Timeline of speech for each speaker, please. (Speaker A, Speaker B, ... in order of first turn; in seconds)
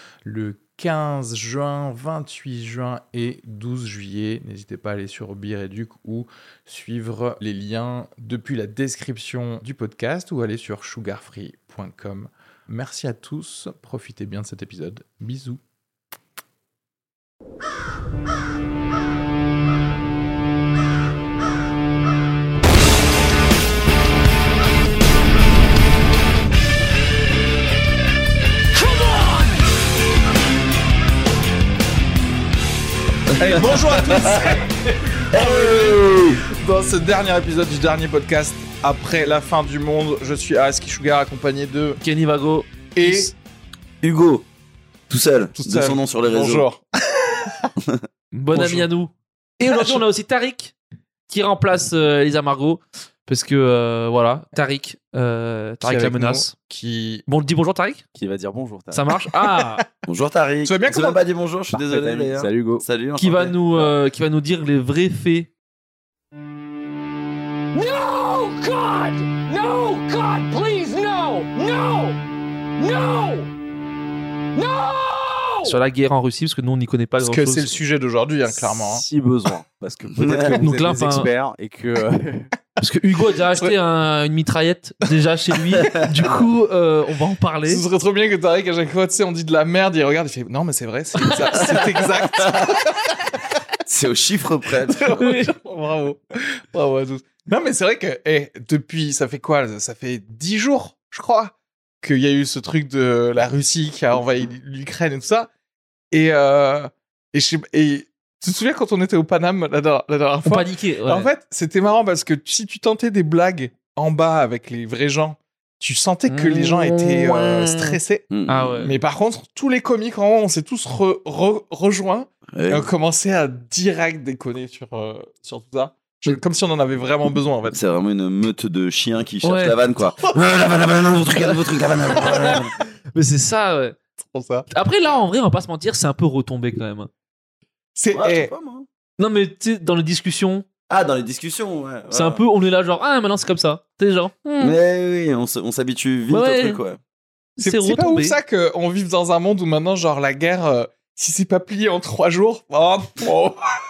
Speaker A: 0.2-15.6, 33.3-42.0, 42.9-43.3, 45.5-47.7, 48.5-48.9, 49.6-50.0, 55.8-57.2, 59.3-59.8, 60.6-61.2, 77.2-79.0, 87.7-93.3, 94.9-105.5, 106.1-118.2, 118.8-127.8, 132.1-132.6, 134.2-134.7, 137.9-138.5, 147.6-153.6
Speaker B: 33.3-34.6, 35.3-36.4, 44.0-44.4, 45.1-46.7, 60.0-63.9, 80.1-80.6, 85.7-86.4, 91.5-92.8, 93.9-95.3, 118.3-118.9, 122.5-122.9, 127.7-132.7, 138.1-138.8, 140.9-142.4, 144.6-147.0
Speaker C: 42.0-43.3, 48.3-50.7, 51.3-56.5, 57.3-58.0, 58.9-59.8, 63.2-65.5, 75.6-77.8, 80.5-81.3, 82.8-87.8, 91.2-91.9, 95.2-95.5, 110.4-111.3, 116.3-119.0, 129.4-129.8, 132.2-134.0, 134.7-137.1, 139.2-140.7, 142.1-144.8, 146.3-146.8, 147.6-148.3
Speaker D: 58.1-59.0, 61.7-62.8, 78.5-82.5
Speaker E: 67.7-72.2, 72.8-73.5, 74.5-75.8